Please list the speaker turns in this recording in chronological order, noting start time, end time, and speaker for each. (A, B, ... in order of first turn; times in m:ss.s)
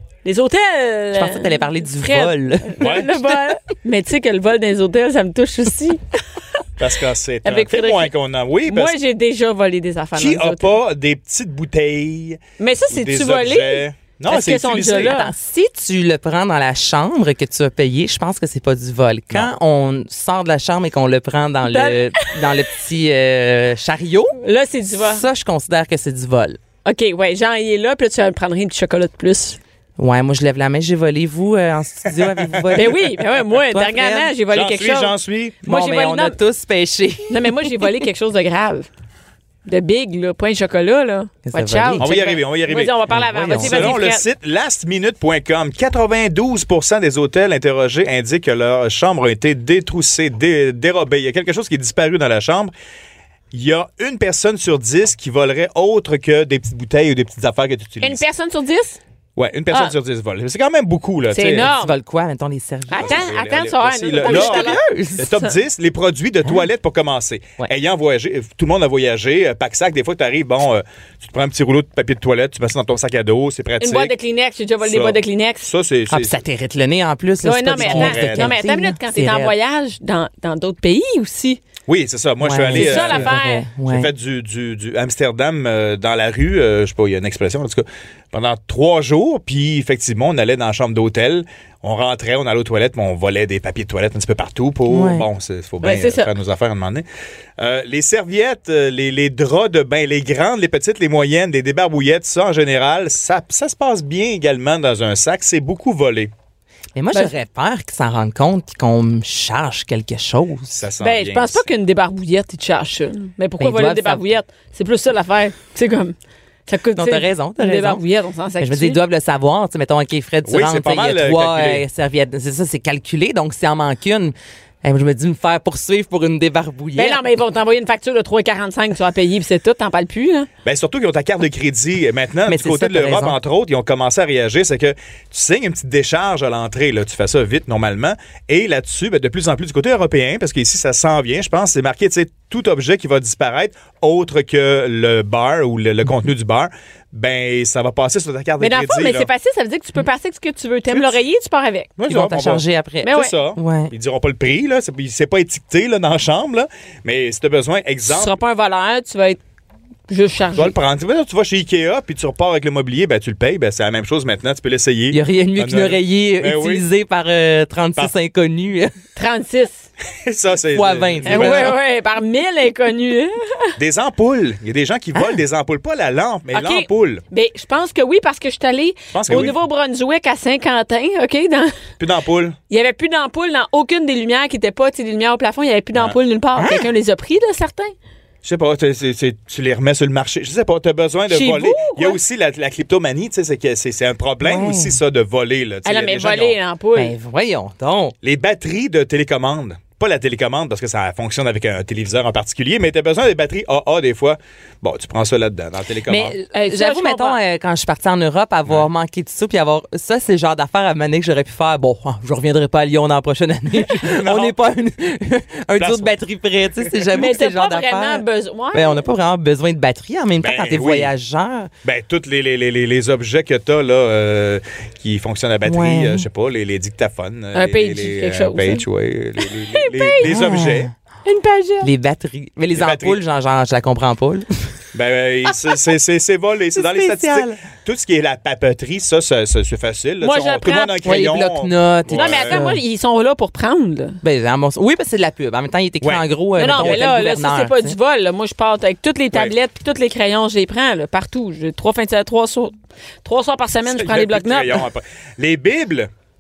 0:00.2-0:06.0 A
0:01.2-0:03.6 B
0:02.8-0:03.1 C
0:06.8-0:09.0 C
0:07.4-0:08.1 A
0:08.6-0:10.8 A
0:10.2-0:15.2 C
0:12.6-0:15.3 A
0:15.0-0:24.4 B
0:21.7-0:22.5 A
0:24.4-0:25.2 A
0:24.9-0:26.6 B
0:26.8-0:29.6 A
0:30.0-0:34.4 B
0:32.7-0:36.4 A
0:34.5-0:35.6 C
0:35.6-0:38.0 B
0:37.3-0:38.9 A
0:39.7-0:44.2 A
0:41.5-0:42.1 B
0:42.0-0:43.0 C
0:43.1-0:44.0 B
0:43.5-0:52.7 C
0:53.5-0:58.2 C
0:58.0-0:59.0 A
0:59.4-1:01.7 C
1:01.3-1:01.9 A
1:01.5-1:03.3 B
1:02.9-1:04.8 A
1:03.0-1:14.1 C
1:04.2-1:05.4 B
1:13.8-1:15.7 A
1:14.8-1:16.4 C
1:16.1-1:19.5 B
1:17.4-1:21.6 A
1:17.8-1:18.6 C
1:21.9-1:37.0 C
1:22.4-1:24.1 B
1:22.7-1:23.7 A
1:34.9-1:35.2 B
1:35.8-1:36.3 A
1:37.6-1:46.3 C
1:47.0-1:50.8 B
1:50.7-1:51.6 C
1:51.0-1:56.1 A
1:53.6-1:54.2 B
1:56.7-1:59.0 A
1:57.0-1:58.0 B
1:58.6-2:07.2 B
2:00.4-2:01.8 C
2:07.0-2:10.5 A
2:10.6-2:29.3 C
2:12.5-2:13.4 B
2:28.6-2:31.9 A
2:30.9-2:31.2 C
2:32.0-2:38.4 C
2:32.1-2:33.9 B
2:33.0-2:33.3 A
2:38.1-2:39.4 A
2:40.1-2:40.8 A
2:40.6-2:46.9 C
2:45.1-2:48.9 B
2:49.2-2:49.9 A
2:50.2-2:51.8 C
2:50.7-2:51.8 B
2:51.2-2:53.7 A
2:53.8-2:57.2 C
2:56.5-3:01.7 A
2:59.1-2:59.6 C
3:02.0-3:02.6 C
3:02.7-3:07.9 A
3:06.6-3:06.9 B
3:08.4-3:16.6 C
3:11.3-3:12.2 A
3:14.4-3:15.0 B
3:15.8-3:17.1 A
3:17.0-3:18.2 B
3:18.2-3:26.4 C
3:26.1-3:41.7 B
3:26.5-3:27.4 A
3:33.9-3:34.6 C
3:35.8-3:36.1 C
3:36.8-3:37.3 C
3:37.1-3:39.0 A
3:40.4-3:41.1 C
3:41.8-3:50.9 C
3:45.6-3:46.2 B
3:47.5-3:48.8 A
3:49.4-3:50.3 A
3:50.2-3:50.9 B
3:51.2-3:51.9 A
3:51.8-3:54.8 B
3:52.7-3:53.2 C
3:54.9-4:02.7 C
3:56.8-3:57.6 B
4:00.2-4:01.1 A
4:01.0-4:02.8 B
4:02.1-4:04.2 A
4:04.2-4:08.0 B
4:06.0-4:07.0 C
4:06.6-4:14.8 A
4:13.9-4:16.1 C